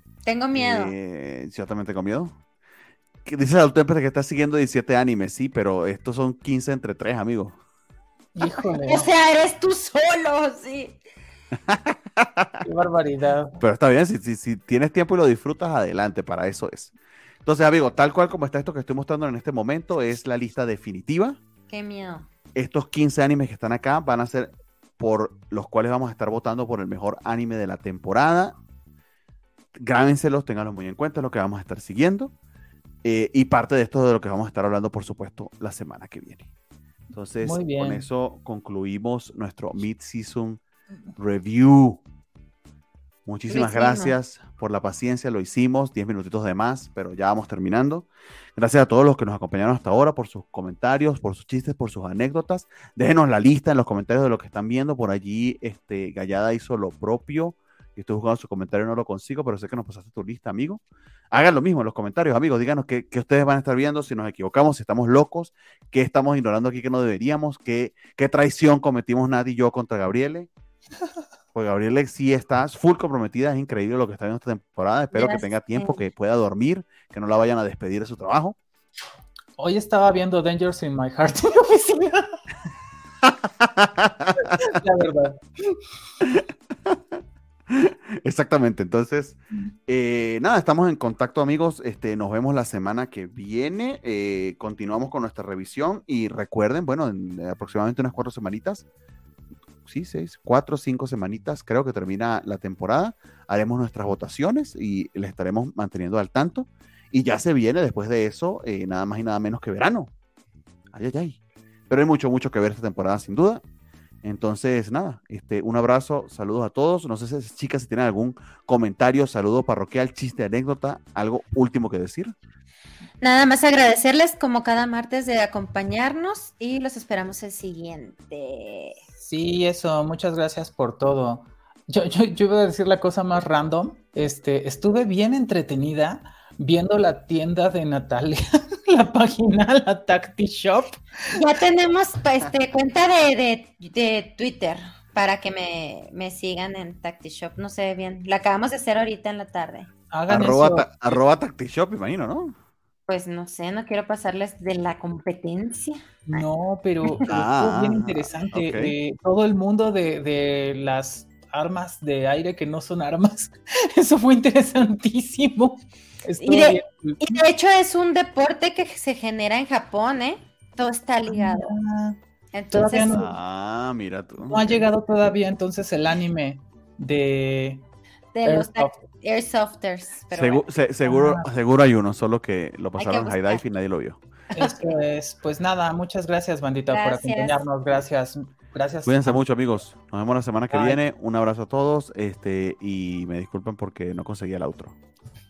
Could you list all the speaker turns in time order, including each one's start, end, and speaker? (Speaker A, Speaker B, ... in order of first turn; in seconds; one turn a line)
Speaker A: 0.2-0.9
Speaker B: 0.5-2.4
Speaker B: 3.2-7.6
Speaker C: 8.3-9.1
Speaker A: 8.8-11.0
Speaker B: 11.7-12.6
Speaker C: 12.6-13.6
Speaker B: 13.6-16.9
Speaker B: 17.4-21.4
Speaker A: 21.7-22.3
Speaker B: 22.5-28.6
Speaker B: 29.7-32.3
Speaker B: 33.0-36.5
Speaker B: 37.1-40.6
Speaker C: 37.4-38.1
Speaker B: 41.2-42.0
Speaker B: 43.2-70.5
Speaker A: 43.5-44.1
Speaker B: 71.5-78.6
Speaker A: 75.1-76.0
Speaker C: 79.6-82.3
Speaker B: 83.2-84.6
Speaker C: 84.4-85.4
Speaker B: 86.2-87.2
Speaker B: 87.7-98.8
Speaker B: 99.8-110.1
Speaker B: 110.9-113.6
Speaker B: 114.2-122.3
Speaker A: 123.2-129.0
Speaker C: 129.2-141.3
Speaker A: 141.3-149.9
Speaker C: 150.1-151.2
Speaker B: 150.3-152.5
Speaker A: 153.1-156.4
Speaker C: 156.2-167.4
Speaker B: 157.3-158.9
Speaker A: 166.4-171.8
Speaker C: 171.3-172.2
Speaker A: 172.5-173.2
Speaker C: 172.7-173.3
Speaker B: 173.0-174.8
Speaker C: 174.4-177.8
Speaker A: 178.3-180.6
Speaker C: 178.4-179.0
Speaker B: 180.3-184.2
Speaker C: 181.0-181.5
Speaker A: 183.0-183.6
Speaker A: 184.5-184.9
Speaker C: 184.6-189.4
Speaker A: 186.9-187.6
Speaker B: 189.1-195.0
Speaker C: 190.7-191.0